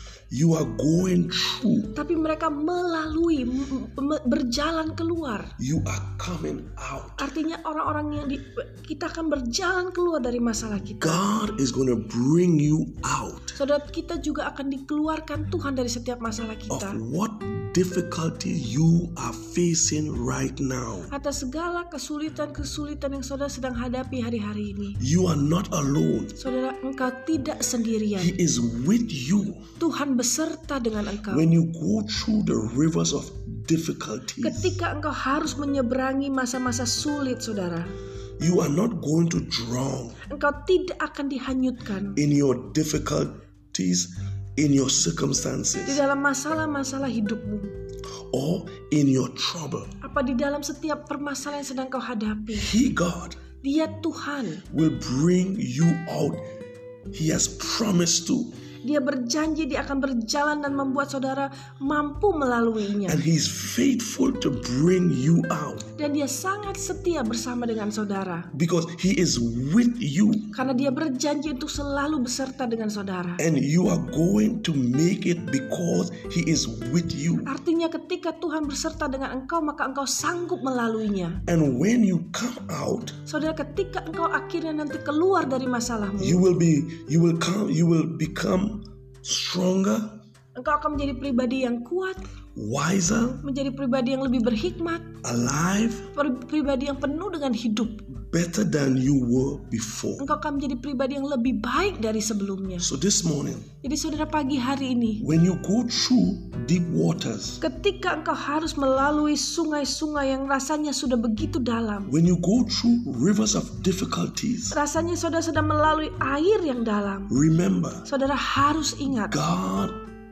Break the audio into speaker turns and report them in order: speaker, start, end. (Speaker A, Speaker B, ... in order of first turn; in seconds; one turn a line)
Speaker A: 0.3-2.0
Speaker B: 1.9-5.5
Speaker A: 5.6-7.3
Speaker B: 7.2-11.3
Speaker A: 11.0-13.6
Speaker B: 13.6-17.0
Speaker A: 16.7-21.1
Speaker B: 21.1-25.0
Speaker A: 25.0-26.4
Speaker B: 26.4-28.3
Speaker A: 28.2-29.7
Speaker B: 29.8-31.5
Speaker A: 31.3-34.8
Speaker B: 34.4-37.9
Speaker A: 38.4-40.2
Speaker B: 40.3-42.2
Speaker A: 42.1-46.0
Speaker B: 45.9-47.7
Speaker A: 48.3-49.9
Speaker B: 50.0-52.7
Speaker A: 52.5-53.4
Speaker B: 53.6-54.6
Speaker A: 54.7-56.4
Speaker A: 57.1-58.6
Speaker B: 58.8-63.2
Speaker A: 63.0-65.9
Speaker B: 66.0-68.5
Speaker A: 68.5-70.5
Speaker B: 70.5-73.4
Speaker A: 73.4-77.5
Speaker B: 77.5-81.4
Speaker A: 81.5-83.2
Speaker B: 83.3-86.4
Speaker A: 86.2-90.2
Speaker B: 90.5-92.2
Speaker A: 92.5-93.4
Speaker B: 93.4-95.2
Speaker A: 95.2-96.1
Speaker B: 96.1-98.1
Speaker A: 98.1-100.3
Speaker B: 100.2-102.9
Speaker A: 102.8-103.7
Speaker B: 103.8-105.2
Speaker A: 105.2-107.6
Speaker B: 107.6-112.1
Speaker A: 112.1-114.8
Speaker B: 114.7-117.3
Speaker A: 117.3-118.1
Speaker B: 118.0-119.4
Speaker A: 119.1-120.0